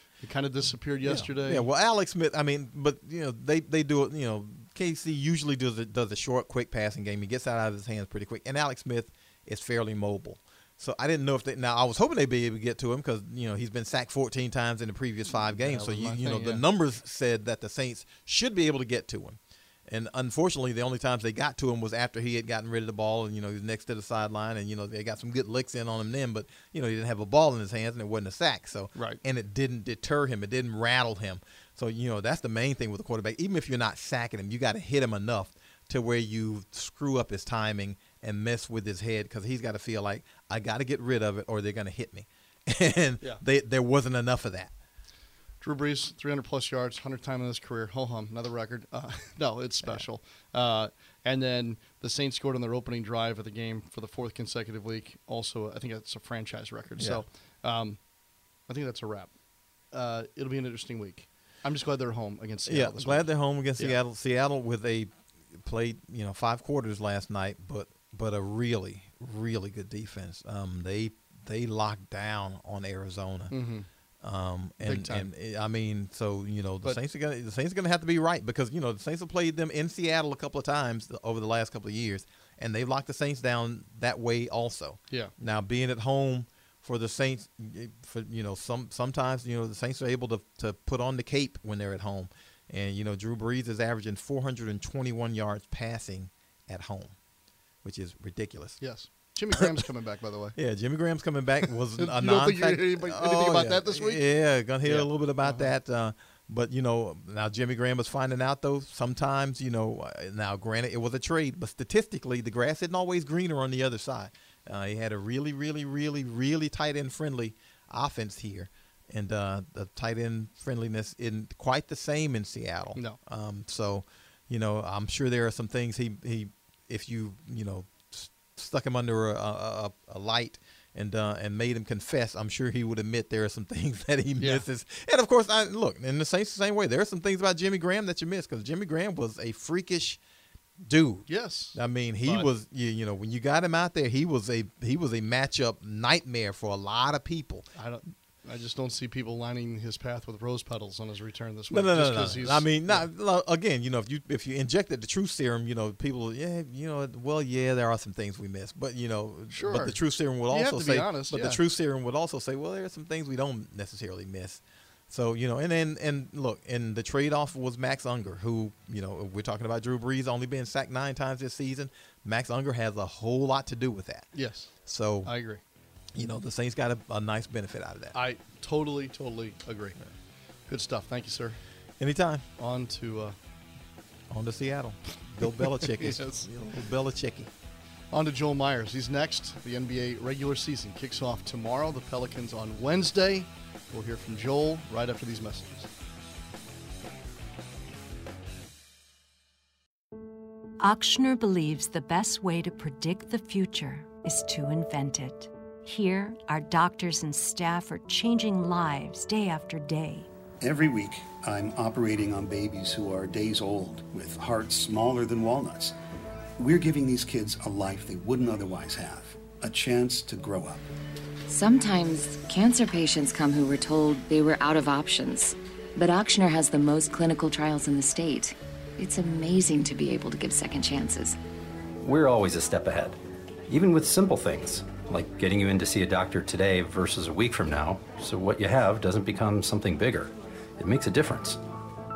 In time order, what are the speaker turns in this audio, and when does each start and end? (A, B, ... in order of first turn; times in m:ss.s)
0:00.2-0:01.7 A
0:01.0-0:44.7 B
0:15.3-0:16.6 A
0:45.6-0:58.0 A
0:57.0-0:57.2 B
0:58.7-0:59.3 A
0:59.9-1:04.0 A
1:02.7-1:13.5 B
1:13.5-1:13.9 A
1:14.2-1:37.1 B
1:14.8-1:15.3 A
1:37.8-1:38.8 B
1:38.8-1:40.6 A
1:40.6-2:20.2 B
1:41.7-1:44.2 A
1:44.8-1:45.7 A
2:20.8-2:27.7 B
2:21.3-2:22.5 A
2:27.8-2:33.1 A
2:31.7-2:54.3 B
2:39.5-2:40.0 A
2:40.5-2:41.6 A
2:54.3-2:54.7 A
2:54.8-2:55.3 B
2:55.2-2:55.6 A
2:56.1-2:58.2 B
2:58.1-3:00.0 A
3:00.7-3:01.6 A
3:02.0-3:02.4 B
3:02.6-3:03.4 A
3:04.3-3:07.5 B
3:05.4-3:06.5 A
3:08.1-3:15.9 A
3:20.8-3:30.3 C
3:30.6-3:35.9 D
3:36.6-3:40.9 D
3:41.5-3:51.4 E
3:52.0-4:01.6 F